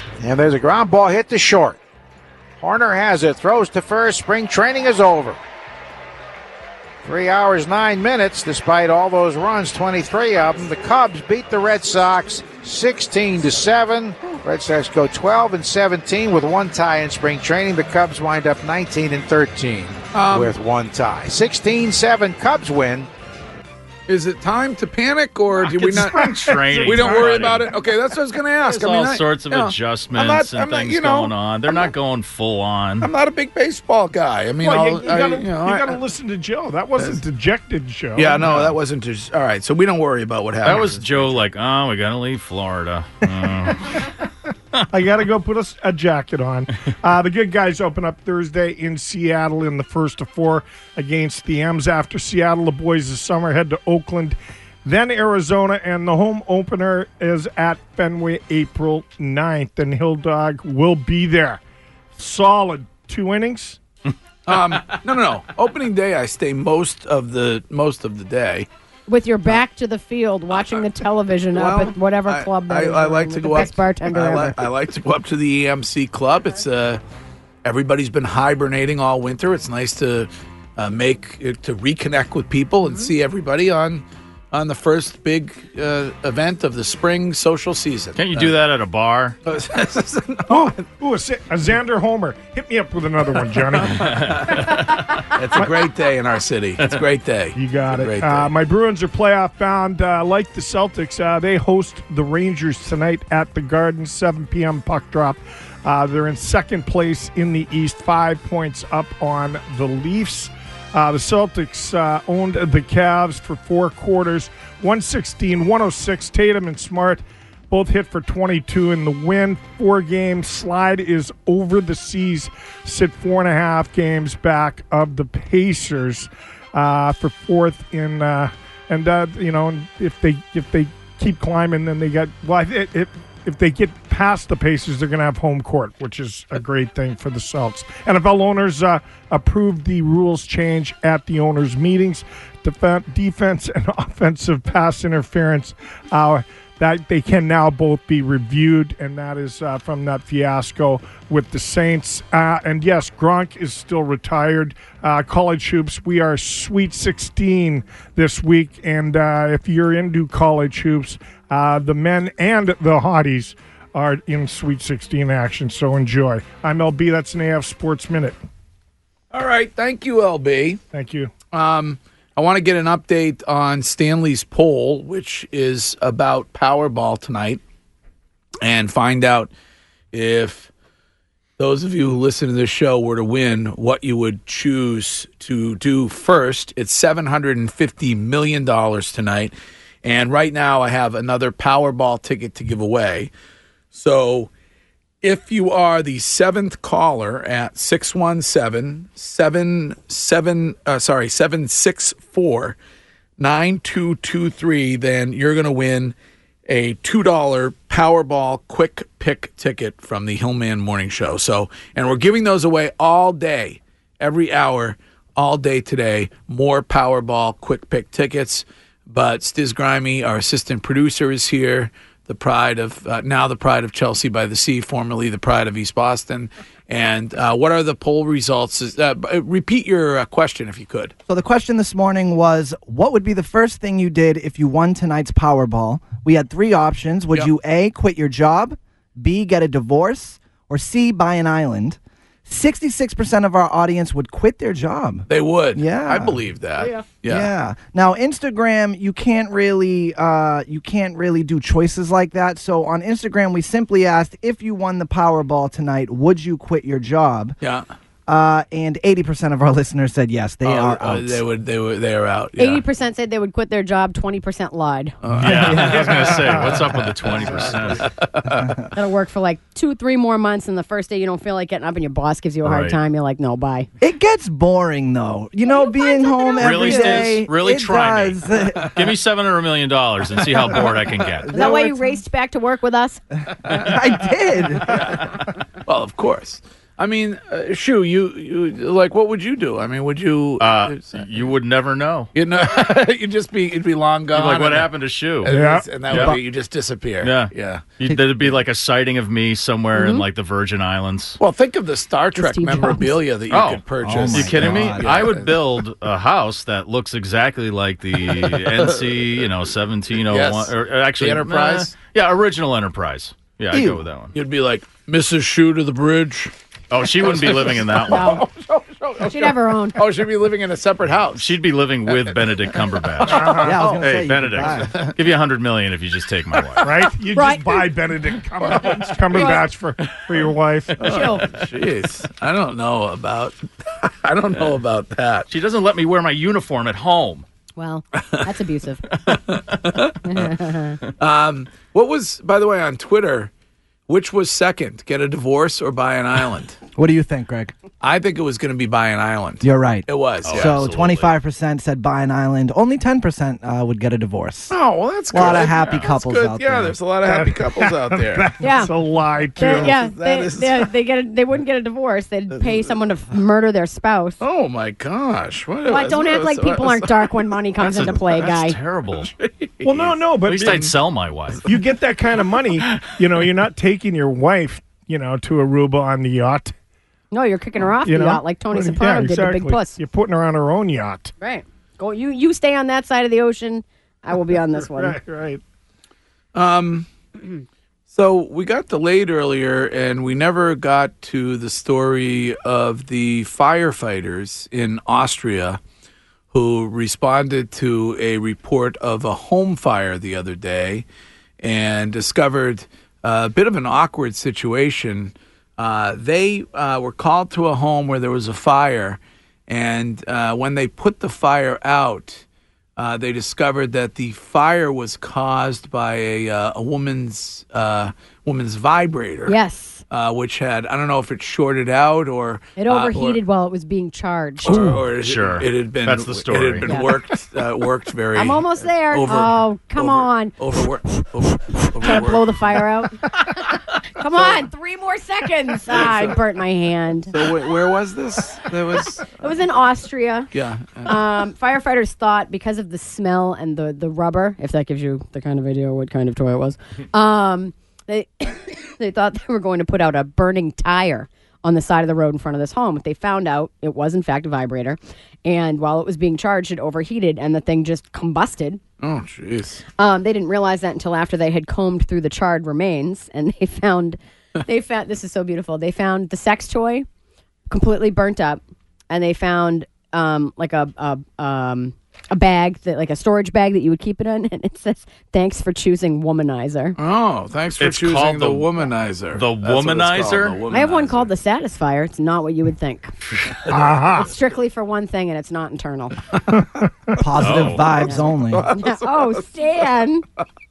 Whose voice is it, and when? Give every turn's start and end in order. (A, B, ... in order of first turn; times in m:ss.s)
0:00.2-0:01.8 A
0:02.6-0:05.4 A
0:07.0-0:23.1 A
0:20.1-0:20.6 B
0:24.1-0:31.9 B
0:25.6-0:27.7 C
0:25.9-0:27.7 D
0:28.7-0:33.1 C
0:33.0-0:36.0 B
0:34.6-0:38.7 D
0:38.2-0:41.3 B
0:40.6-0:44.0 C
0:44.9-1:01.6 D
1:02.2-1:03.8 D
1:04.5-1:08.7 B
1:09.1-1:14.6 E
1:11.5-1:17.0 B
1:17.6-1:28.5 B
1:28.2-1:29.4 C
1:29.4-1:30.8 B
1:30.5-1:34.6 D
1:34.0-1:35.0 C
1:34.3-1:34.8 B
1:35.3-1:38.5 B
1:35.6-1:35.8 D
1:37.6-2:48.4 D
2:49.3-2:50.8 B
2:50.9-2:51.3 D
2:51.5-2:57.6 B
2:58.6-2:59.5 B
3:00.1-3:00.7 B
3:01.6-3:13.3 B
3:13.9-3:14.5 B
3:15.2-3:22.8 B
3:23.4-3:26.2 B
3:26.7-3:51.1 B
3:51.3-4:06.4 F
4:05.3-4:07.5 B
4:07.3-4:17.6 F
4:17.6-4:17.9 B
4:18.3-4:21.4 F
4:20.6-4:22.8 B
4:22.6-4:25.2 E
4:25.2-4:26.7 B
4:25.4-4:27.6 F
4:25.4-4:28.1 C
4:27.3-4:28.6 B
4:28.6-4:28.9 F
4:28.9-4:33.9 E
4:32.6-4:33.0 C
4:34.0-4:39.1 F
4:35.6-4:37.3 E
4:36.6-4:41.6 C
4:41.5-4:43.2 E
4:41.5-4:42.1 F
4:43.7-4:45.0 F
4:45.9-4:51.2 B
4:50.6-4:52.3 C
4:52.4-4:54.9 B
4:54.3-4:55.5 C
4:55.4-4:56.0 D
4:55.4-4:58.0 B
4:56.1-4:56.4 C
4:56.1-4:56.4 F
4:57.2-5:01.4 C
4:59.9-5:00.2 E
5:01.4-5:05.6 B
5:02.4-5:03.2 E
5:03.5-5:14.3 C
5:04.0-5:05.4 F
5:08.4-5:09.2 B
5:10.3-5:12.0 B
5:13.7-5:14.0 F
5:14.3-5:16.5 B
5:16.9-5:18.4 C
5:17.2-5:21.5 B
5:18.0-5:18.4 E
5:19.2-5:20.0 E
5:21.4-5:27.0 C
5:22.1-5:22.4 B
5:23.2-5:23.9 B
5:23.5-5:25.0 F
5:26.8-5:31.1 D
5:27.3-5:27.9 E
5:28.7-5:29.6 B
5:29.3-5:29.6 E
5:31.0-5:35.5 B
5:31.0-5:31.5 E
5:35.5-5:37.4 C
5:37.8-5:39.0 E
5:39.3-5:40.5 B
5:40.3-5:41.0 E
5:41.2-5:43.5 B
5:44.1-5:46.8 B
5:47.0-5:47.7 F
5:48.0-5:50.8 B
5:49.6-5:54.8 F
5:50.4-5:51.3 C
5:54.7-5:58.5 B
5:55.3-5:57.0 F
5:55.6-5:56.1 C
5:57.2-5:59.9 D
5:58.6-5:58.9 E
5:59.6-6:00.9 B
5:59.6-6:04.4 E
6:04.4-6:08.2 B
6:05.9-6:08.8 E
6:07.8-6:09.3 C
6:09.2-6:10.9 B
6:09.8-6:11.0 D
6:10.4-6:11.7 C
6:11.6-6:16.7 D
6:12.9-6:13.2 C
6:17.3-6:20.0 E
6:18.0-6:21.3 D
6:21.4-6:25.2 E
6:24.4-6:25.6 D
6:26.6-6:27.1 B
6:28.1-6:35.8 B
6:36.5-6:41.0 B
6:41.6-6:52.4 B
6:53.0-6:59.6 B
6:59.5-7:00.0 E
7:00.1-7:03.4 B
7:02.8-7:04.8 E
7:04.6-7:12.9 B
7:04.7-7:07.0 C
7:06.8-7:07.2 E
7:08.4-7:10.6 E
7:11.7-7:17.4 E
7:14.4-7:14.6 B
7:15.9-7:16.4 B
7:17.3-7:19.5 B
7:19.3-7:20.5 E
7:20.5-7:21.2 B
7:21.0-7:38.8 E
7:39.0-7:39.8 B
7:40.0-7:47.1 E
7:47.7-7:57.0 E
7:57.0-8:01.3 B
7:57.8-7:58.7 C
7:59.3-8:00.6 C
8:00.7-8:03.2 E
8:03.7-8:04.3 D
8:04.1-8:06.2 E
8:07.2-8:08.7 F
8:07.4-8:07.9 C
8:08.0-8:10.2 E
8:08.1-8:09.5 B